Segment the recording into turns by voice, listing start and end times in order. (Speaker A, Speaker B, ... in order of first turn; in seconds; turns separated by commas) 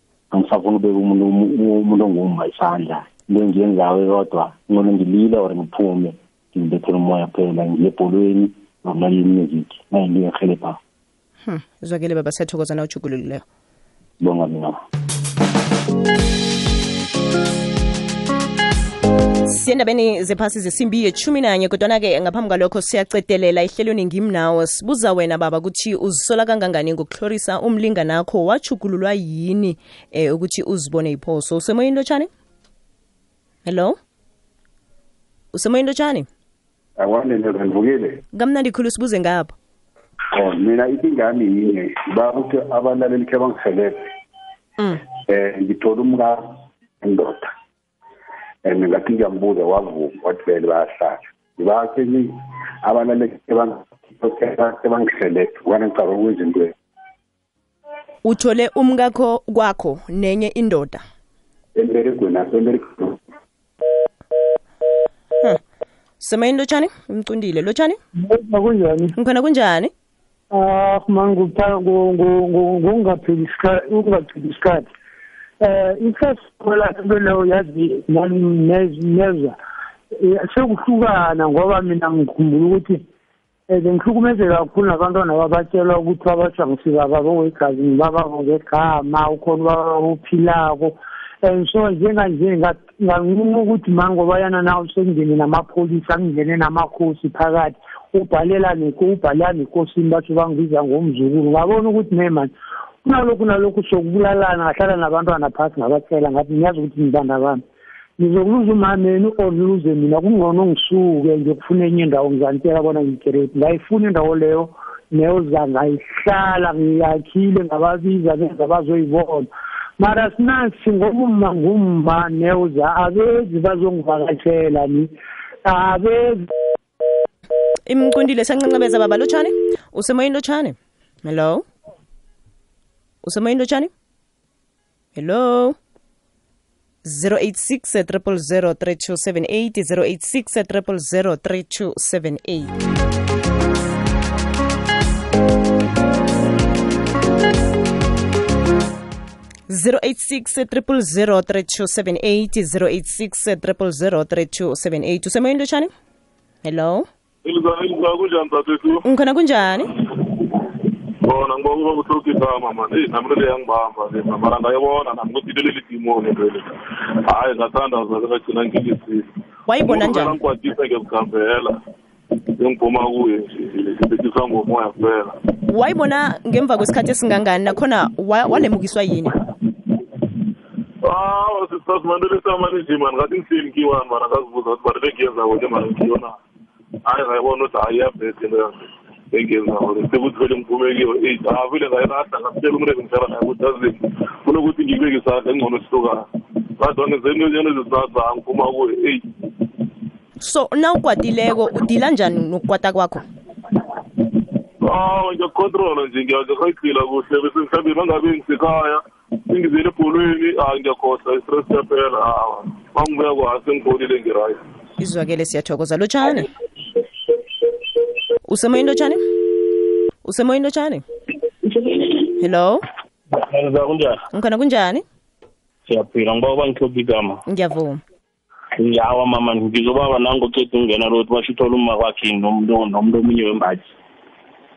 Speaker A: 0.3-10.8, Speaker B: 11.4-13.4, Speaker A: 14.2-14.8, Speaker B: 19.4-32.3, Speaker B: 33.6-34.0, Speaker B: 35.5-36.3, Speaker C: 37.0-38.2, Speaker B: 38.3-39.5, Speaker C: 40.3-44.1, Speaker C: 45.2-47.5, Speaker C: 48.6-56.7, Speaker B: 58.2-61.0, Speaker C: 61.7-63.2, Speaker B: 66.2-68.0, Speaker D: 68.2-69.2, Speaker B: 69.2-69.9, Speaker D: 70.5-74.9, Speaker D: 75.6-79.6, Speaker D: 80.1-83.0, Speaker D: 83.7-102.5, Speaker D: 103.0-107.6, Speaker D: 108.2-125.1, Speaker D: 125.6-126.5, Speaker B: 127.8-131.6, Speaker B: 133.2-133.9, Speaker B: 135.1-135.8, Speaker B: 137.0-142.7, Speaker B: 149.7-155.9, Speaker B: 156.6-157.1, Speaker E: 157.4-159.0, Speaker B: 159.0-159.9, Speaker E: 161.2-169.3, Speaker B: 169.7-170.3, Speaker E: 169.8-171.8, Speaker E: 172.6-175.4, Speaker B: 175.7-179.4, Speaker E: 181.0-186.4, Speaker E: 187.0-196.2, Speaker E: 196.8-199.3, Speaker B: 200.4-203.2, Speaker E: 204.8-214.6, Speaker B: 215.0-216.5, Speaker B: 218.4-219.2, Speaker B: 220.2-221.0, Speaker B: 222.4-222.8, Speaker F: 223.3-224.2, Speaker B: 224.3-225.0, Speaker F: 225.8-227.4, Speaker B: 227.5-228.0, Speaker F: 228.8-233.9